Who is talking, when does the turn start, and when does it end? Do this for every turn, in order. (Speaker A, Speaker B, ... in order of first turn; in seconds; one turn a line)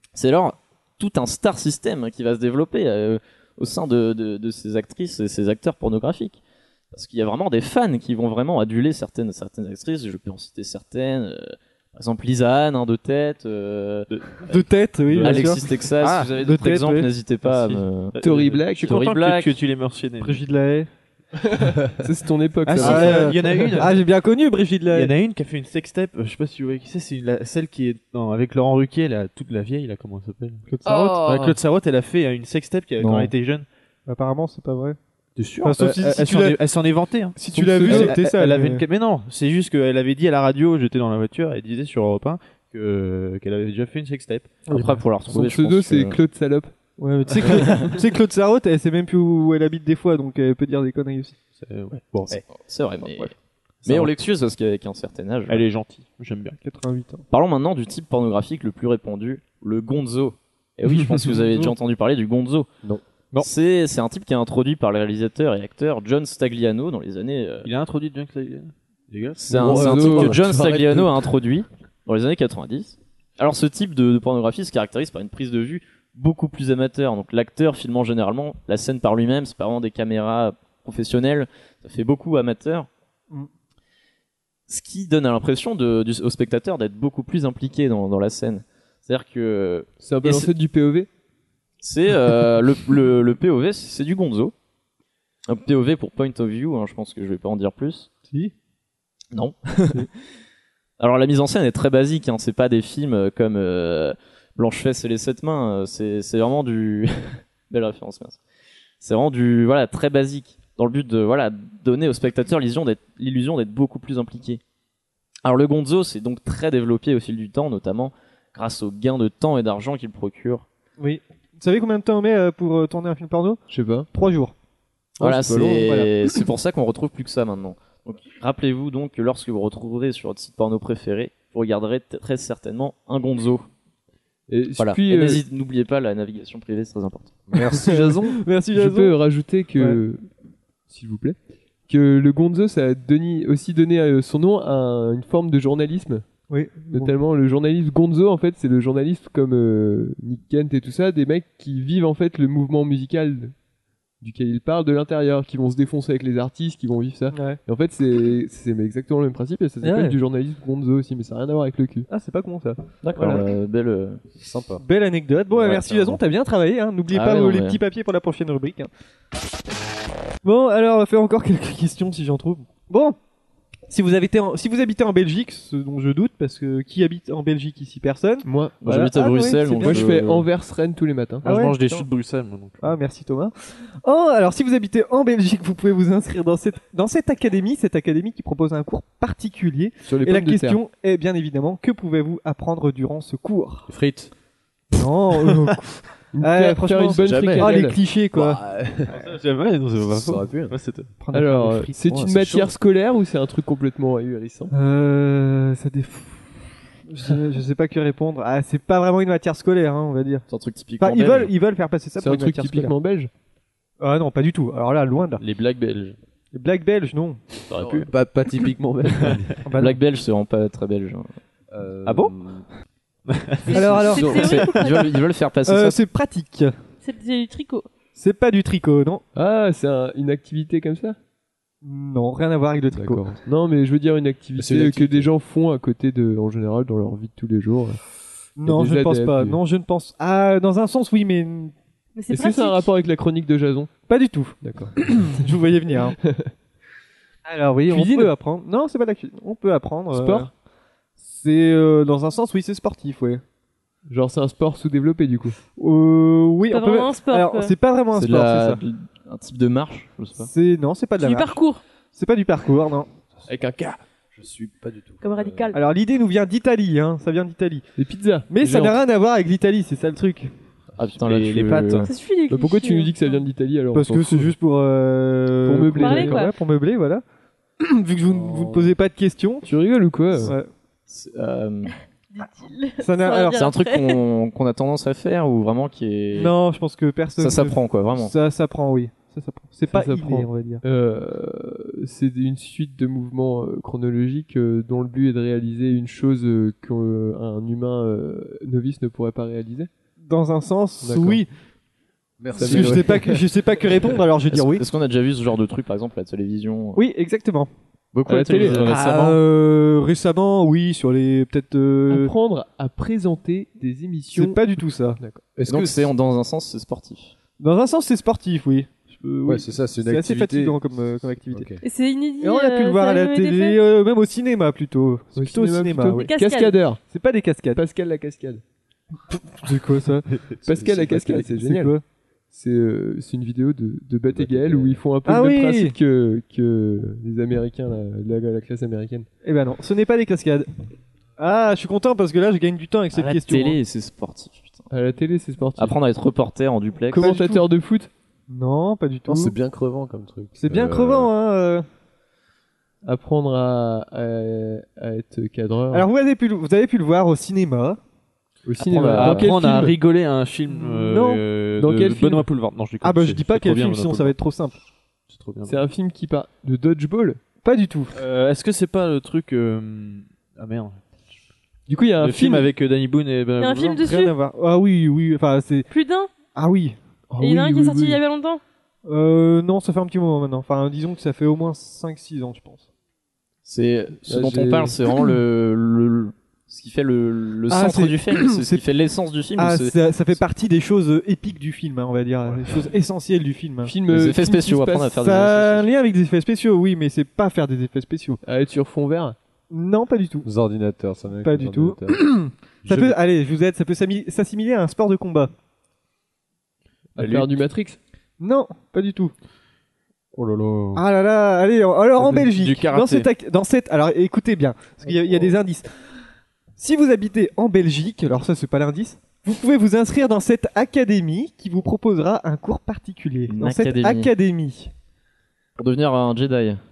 Speaker A: 0.1-6.4
Speaker A: 6.9-14.6
Speaker B: 14.5-17.1
Speaker C: 15.1-16.3
Speaker A: 15.1-18.1
Speaker C: 17.4-20.4
Speaker D: 18.2-19.0
Speaker A: 18.7-19.6
Speaker B: 20.2-20.9
Speaker D: 22.0-23.8
Speaker C: 22.6-24.0
Speaker B: 22.8-25.1
Speaker C: 24.9-30.6
Speaker B: 30.7-31.5
Speaker D: 30.8-31.5
Speaker C: 31.2-33.6
Speaker A: 33.0-33.3
Speaker B: 34.1-35.0
Speaker C: 35.4-44.5
Speaker B: 35.6-36.6
Speaker B: 37.4-38.8
Speaker B: 44.7-45.0
Speaker A: 44.7-46.2
Speaker D: 45.3-46.7
Speaker B: 47.0-51.4
Speaker C: 51.5-52.4
Speaker A: 52.3-53.3
Speaker C: 53.8-54.1
Speaker A: 53.8-55.6
Speaker C: 55.5-56.6
Speaker B: 56.6-57.2
Speaker A: 57.3-62.7
Speaker A: 63.4-67.7
Speaker C: 67.6-69.5
Speaker A: 69.4-82.9
Speaker E: 69.5-71.3
Speaker D: 69.5-70.4
Speaker A: 84.7-90.5
Speaker D: 90.0-91.1
Speaker A: 91.8-94.5
Speaker A: 95.5-98.1
Speaker A: 99.3-100.0
Speaker A: 101.0-108.4
Speaker A: 109.0-114.6
Speaker A: 115.4-120.7
Speaker B: 121.0-124.5
Speaker D: 123.7-124.1
Speaker A: 125.2-133.7
Speaker D: 125.2-126.0
Speaker B: 125.4-126.1
Speaker D: 134.5-135.4
Speaker A: 134.8-137.3
Speaker E: 137.5-138.2
Speaker B: 137.6-139.2
Speaker D: 138.7-140.3
Speaker B: 139.8-140.0
Speaker D: 140.9-141.4
Speaker D: 141.9-146.2
Speaker B: 146.5-147.1
Speaker D: 146.9-153.5
Speaker D: 154.2-162.1
Speaker B: 157.3-157.6
Speaker B: 159.8-160.2
Speaker B: 162.1-163.4
Speaker A: 163.0-164.2
Speaker E: 164.4-164.8
Speaker B: 164.8-168.9
Speaker E: 165.6-166.2
Speaker A: 167.1-167.8
Speaker B: 170.4-173.2
Speaker B: 173.9-180.1
Speaker D: 178.4-178.9
Speaker A: 178.8-180.5
Speaker D: 179.8-181.5
Speaker C: 181.4-182.9
Speaker B: 181.4-182.1
Speaker B: 182.8-193.9
Speaker D: 190.1-190.8
Speaker E: 193.9-194.3
Speaker B: 194.9-198.6
Speaker D: 196.3-198.0
Speaker E: 197.3-197.7
Speaker E: 198.3-199.3
Speaker C: 199.1-201.1
Speaker E: 200.0-200.7
Speaker B: 201.2-202.6
Speaker D: 201.3-204.7
Speaker B: 204.7-210.4
Speaker A: 210.5-211.5
Speaker B: 211.0-212.9
Speaker D: 212.2-213.3
Speaker B: 214.0-215.4
Speaker C: 215.4-216.2
Speaker B: 216.5-217.4
Speaker A: 217.7-218.1
Speaker E: 217.8-219.6
Speaker B: 219.7-220.0
Speaker A: 219.7-221.3
Speaker E: 221.7-222.7
Speaker C: 223.3-223.7
Speaker F: 223.7-225.2
Speaker B: 223.7-224.6
Speaker E: 223.9-224.5
Speaker A: 224.2-226.0
Speaker B: 225.6-226.7
Speaker F: 227.0-227.9
Speaker B: 228.2-229.2
Speaker D: 229.3-231.2
Speaker B: 231.8-233.3
Speaker D: 232.9-238.0
Speaker E: 234.6-235.3
Speaker B: 238.6-241.7
Speaker D: 238.6-239.6
Speaker F: 242.1-242.9
Speaker D: 242.3-243.9
Speaker B: 244.1-246.2
Speaker D: 244.6-245.5
Speaker D: 246.0-246.5
Speaker B: 247.4-250.5
Speaker D: 247.9-248.3
Speaker D: 250.1-250.5
Speaker B: 251.2-253.4
Speaker D: 254.1-255.6
Speaker B: 255.8-258.8
Speaker F: 256.7-257.7
Speaker A: 258.1-260.5
Speaker B: 260.4-261.6
Speaker F: 261.2-261.8
Speaker B: 262.1-263.1
Speaker D: 263.5-263.9
Speaker E: 264.3-265.7
Speaker F: 265.2-265.8
Speaker B: 265.7-267.9
Speaker D: 268.0-269.0
Speaker B: 268.5-270.5
Speaker A: 271.0-272.1
Speaker C: 271.2-272.1
Speaker F: 272.0-273.1
Speaker D: 272.5-274.5
Speaker B: 273.9-277.2
Speaker D: 275.6-276.4
Speaker F: 276.0-276.5
Speaker B: 277.8-279.7
Speaker E: 278.3-278.6
Speaker D: 278.4-278.9
Speaker D: 279.6-280.6
Speaker B: 280.4-280.7
Speaker A: 281.1-281.9
Speaker F: 282.3-284.2
Speaker B: 283.0-283.6
Speaker A: 283.5-286.5
Speaker B: 286.3-290.8
Speaker A: 287.4-288.3
Speaker D: 289.9-299.9
Speaker B: 300.3-301.5
Speaker D: 301.0-301.4
Speaker E: 302.4-303.4
Speaker B: 302.6-304.8
Speaker D: 302.6-303.4
Speaker A: 304.5-307.0
Speaker B: 306.9-307.7
Speaker A: 308.1-309.4
Speaker D: 308.3-309.0
Speaker B: 308.8-312.3
Speaker D: 312.1-314.6
Speaker B: 314.3-315.2
Speaker D: 315.1-315.4
Speaker E: 315.6-316.1
Speaker A: 315.7-317.3
Speaker B: 317.6-321.7
Speaker E: 319.4-320.8
Speaker E: 321.5-321.8
Speaker F: 321.8-323.8
Speaker B: 322.4-326.3
Speaker D: 325.4-327.0
Speaker F: 326.2-326.8
Speaker B: 327.1-327.8
Speaker D: 327.7-328.6
Speaker B: 329.6-330.3
Speaker E: 330.4-331.2
Speaker D: 330.6-331.9
Speaker B: 331.1-332.0
Speaker D: 332.5-339.3
Speaker E: 334.3-335.0
Speaker B: 335.2-335.9
Speaker B: 339.4-340.7
Speaker B: 341.4-343.8
Speaker A: 343.1-344.9
Speaker D: 344.9-345.9
Speaker A: 345.8-347.3
Speaker D: 347.1-348.1
Speaker B: 347.2-347.7
Speaker B: 348.5-349.5
Speaker E: 349.2-351.3
Speaker B: 350.6-351.9
Speaker D: 353.0-356.1
Speaker B: 355.9-358.0
Speaker D: 358.6-360.0
Speaker A: 358.9-359.5
Speaker C: 359.0-364.3
Speaker B: 360.7-361.4
Speaker D: 361.8-362.5
Speaker B: 363.0-364.8
Speaker C: 365.3-365.8
Speaker D: 365.6-367.4
Speaker B: 367.6-368.1
Speaker C: 368.1-371.0
Speaker D: 371.9-372.7
Speaker C: 372.2-374.0
Speaker F: 373.6-374.3
Speaker B: 373.9-375.9
Speaker F: 375.9-376.3
Speaker B: 376.5-377.0
Speaker D: 377.3-378.2
Speaker F: 377.4-378.6
Speaker B: 379.1-382.8
Speaker A: 383.6-390.0
Speaker D: 384.2-384.9
Speaker B: 387.7-388.8
Speaker B: 389.6-393.9
Speaker D: 393.8-395.1
Speaker A: 394.1-395.9
Speaker B: 395.1-398.4
Speaker D: 398.4-399.4
Speaker B: 399.7-400.5
Speaker E: 400.4-403.2
Speaker B: 401.4-405.5
Speaker D: 407.1-408.0
Speaker C: 407.2-407.6
Speaker B: 408.4-409.3
Speaker C: 410.3-411.0
Speaker B: 410.9-415.9
Speaker A: 412.3-413.3
Speaker B: 416.8-424.9
Speaker A: 423.5-424.3
Speaker A: 425.8-426.8